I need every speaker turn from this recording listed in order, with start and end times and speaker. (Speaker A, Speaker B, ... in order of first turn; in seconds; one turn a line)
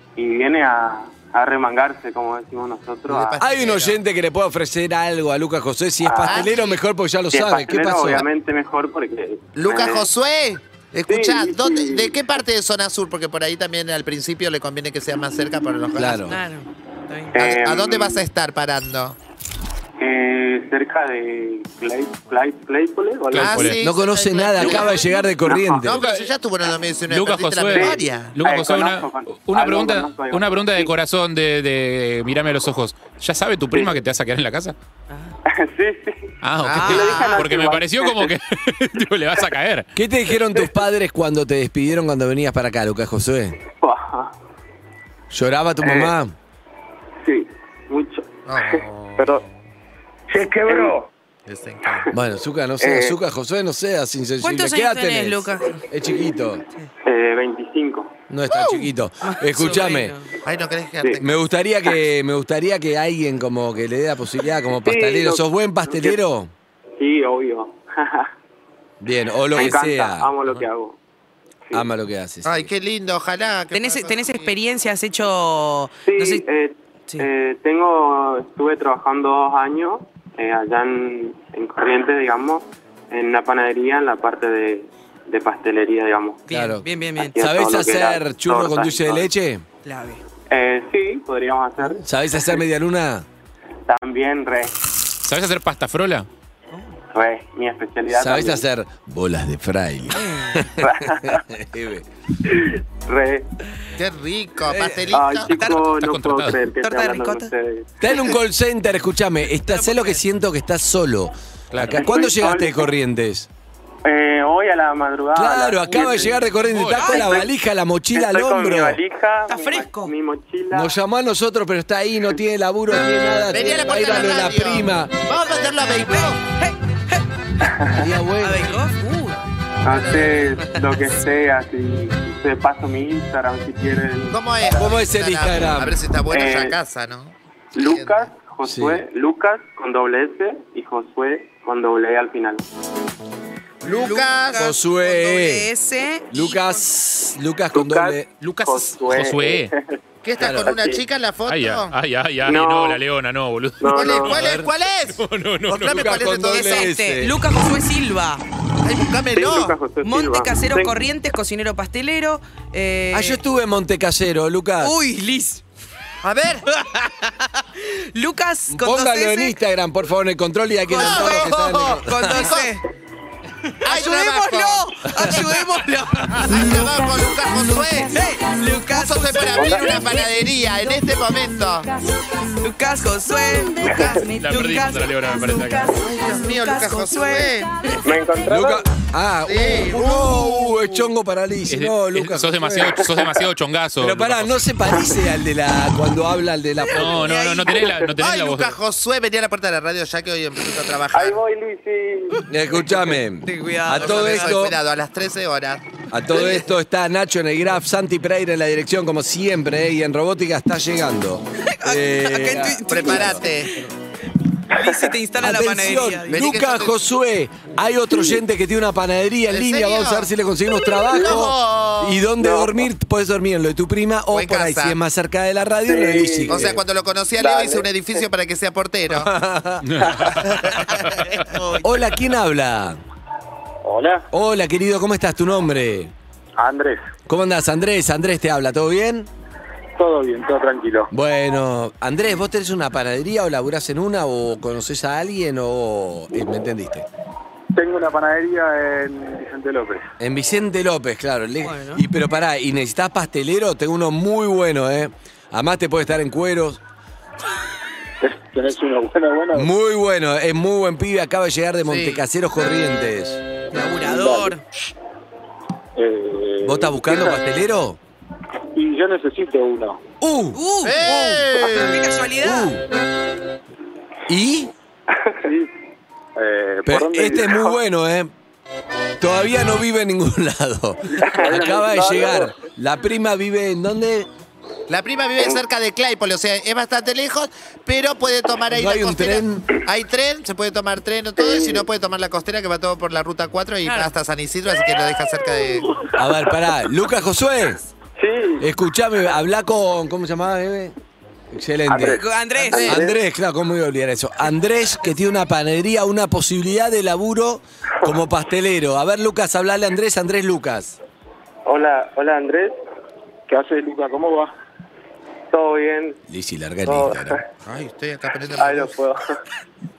Speaker A: 0.2-3.4
Speaker B: 3.1-4.0
Speaker C: 3.4-8.3
Speaker A: 6.0-6.7
Speaker B: 6.3-6.8
Speaker A: 7.3-10.1
Speaker B: 9.6-16.2
Speaker A: 11.1-12.2
Speaker C: 16.0-16.4
Speaker D: 16.3-17.4
Speaker A: 17.3-18.2
Speaker B: 17.4-19.2
Speaker A: 20.0-23.7
Speaker E: 23.3-23.8
Speaker B: 23.4-25.0
Speaker C: 23.8-26.0
Speaker A: 24.6-25.9
Speaker B: 25.8-28.4
Speaker E: 25.9-26.3
Speaker E: 27.1-34.8
Speaker A: 27.7-30.9
Speaker D: 35.1-35.4
Speaker A: 35.5-38.3
Speaker E: 36.4-39.9
Speaker B: 36.6-37.1
Speaker D: 36.8-37.4
Speaker C: 40.0-43.6
Speaker A: 43.8-44.3
Speaker C: 45.3-46.4
Speaker A: 45.8-46.1
Speaker A: 47.2-48.3
Speaker B: 48.5-49.3
Speaker A: 49.2-49.4
Speaker F: 50.3-51.0
Speaker A: 50.7-50.9
Speaker B: 51.5-52.0
Speaker C: 52.1-56.6
Speaker A: 52.8-53.2
Speaker D: 54.4-55.9
Speaker A: 57.0-58.1
Speaker C: 58.3-60.2
Speaker D: 58.5-60.3
Speaker B: 60.5-61.3
Speaker C: 61.2-66.5
Speaker A: 64.8-66.2
Speaker A: 67.0-68.3
Speaker C: 69.0-70.3
Speaker A: 69.5-71.0
Speaker C: 71.7-72.7
Speaker B: 72.5-74.5
Speaker D: 73.7-76.4
Speaker A: 76.1-86.5
Speaker D: 86.5-87.3
Speaker C: 86.5-86.8
Speaker A: 87.2-89.3
Speaker C: 87.4-89.7
Speaker D: 89.8-90.2
Speaker A: 90.5-92.0
Speaker C: 92.0-93.3
Speaker A: 93.9-94.7
Speaker E: 95.2-96.3
Speaker A: 97.1-98.6
Speaker C: 98.1-102.1
Speaker D: 100.2-100.6
Speaker A: 100.8-101.5
Speaker A: 102.5-103.5
Speaker B: 104.0-105.8
Speaker D: 104.7-105.0
Speaker A: 105.1-108.2
Speaker D: 105.5-105.8
Speaker E: 105.8-106.6
Speaker D: 106.8-107.5
Speaker C: 108.0-113.5
Speaker D: 109.6-110.2
Speaker E: 111.7-112.1
Speaker A: 111.9-112.9
Speaker A: 114.0-116.4
Speaker C: 115.3-119.0
Speaker E: 116.6-117.3
Speaker D: 117.0-117.3
Speaker A: 117.0-117.5
Speaker A: 118.1-120.9
Speaker D: 119.5-120.1
Speaker C: 120.7-125.1
Speaker B: 123.5-126.4
Speaker D: 125.8-127.2
Speaker A: 127.8-128.1
Speaker C: 127.9-128.8
Speaker D: 128.4-129.4
Speaker A: 129.8-134.8
Speaker B: 129.9-130.3
Speaker B: 134.3-138.2
Speaker C: 134.7-136.0
Speaker A: 136.3-136.8
Speaker A: 137.7-142.7
Speaker C: 138.7-139.0
Speaker B: 143.8-144.7
Speaker D: 143.9-146.8
Speaker C: 144.6-145.7
Speaker C: 146.3-148.3
Speaker A: 147.7-149.9
Speaker E: 148.4-149.7
Speaker B: 150.2-151.9
Speaker C: 150.4-150.7
Speaker A: 150.6-151.0
Speaker E: 151.5-154.4
Speaker A: 152.4-153.0
Speaker A: 153.8-154.4
Speaker B: 153.9-156.9
Speaker C: 154.3-154.7
Speaker E: 155.2-156.3
Speaker C: 155.8-157.4
Speaker D: 156.5-158.4
Speaker B: 158.8-159.8
Speaker A: 159.3-161.0
Speaker D: 160.0-163.4
Speaker C: 163.1-164.9
Speaker D: 164.8-165.6
Speaker B: 166.2-166.7
Speaker D: 166.8-169.6
Speaker C: 168.7-172.6
Speaker D: 170.9-172.8
Speaker B: 170.9-172.7
Speaker D: 173.8-177.1
Speaker B: 173.8-175.7
Speaker B: 176.4-181.9
Speaker D: 178.1-180.1
Speaker A: 179.6-180.0
Speaker D: 182.6-187.9
Speaker B: 183.9-184.2
Speaker E: 184.4-185.9
Speaker B: 185.9-187.7
Speaker A: 188.0-188.8
Speaker C: 188.4-193.2
Speaker B: 189.4-191.0
Speaker E: 191.7-194.7
Speaker C: 194.0-197.3
Speaker E: 196.9-198.8
Speaker D: 197.1-197.8
Speaker B: 198.2-201.4
Speaker A: 201.1-202.5
Speaker C: 202.5-204.8
Speaker D: 203.4-204.6
Speaker B: 204.0-206.7
Speaker C: 206.1-213.4
Speaker D: 211.7-213.4
Speaker B: 212.9-213.8
Speaker D: 214.7-216.4
Speaker C: 215.4-226.8
Speaker B: 216.3-217.0
Speaker B: 219.5-220.3
Speaker B: 221.1-222.3
Speaker A: 222.4-222.9
Speaker B: 224.3-225.0
Speaker A: 225.9-226.5
Speaker B: 226.5-229.3
Speaker A: 227.4-228.2
Speaker C: 229.1-230.2
Speaker E: 229.8-230.4
Speaker B: 230.4-231.0
Speaker C: 231.8-233.0
Speaker F: 233.8-234.3
Speaker C: 234.3-236.1
Speaker F: 236.6-237.0
Speaker C: 237.3-239.3
Speaker F: 240.0-241.1
Speaker C: 241.1-247.1
Speaker F: 247.8-250.1
Speaker C: 250.2-256.8
Speaker D: 251.6-252.0
Speaker F: 258.2-259.7
Speaker C: 259.5-263.4
Speaker B: 261.9-262.2
Speaker D: 263.7-264.6
Speaker F: 264.0-264.6
Speaker F: 266.0-267.4
Speaker C: 266.6-268.0
Speaker F: 268.7-270.0
Speaker C: 270.2-270.6
Speaker D: 270.5-272.8
Speaker B: 270.8-272.0
Speaker C: 272.4-272.9
Speaker C: 274.3-274.7
Speaker F: 275.4-275.7
Speaker F: 276.4-277.6
Speaker C: 276.9-278.3
Speaker C: 279.2-284.3
Speaker A: 281.2-282.5
Speaker B: 284.9-295.9
Speaker C: 288.7-289.7
Speaker A: 291.4-291.9
Speaker D: 293.9-294.1
Speaker C: 296.1-297.8
Speaker A: 298.2-298.6
Speaker C: 298.6-300.9
Speaker C: 301.5-311.0
Speaker A: 301.9-303.2
Speaker D: 302.0-303.0
Speaker A: 311.7-312.8
Speaker F: 313.5-314.5
Speaker A: 315.5-316.2
Speaker C: 316.3-317.4
Speaker A: 316.9-317.5
Speaker B: 317.6-318.9
Speaker A: 318.6-319.2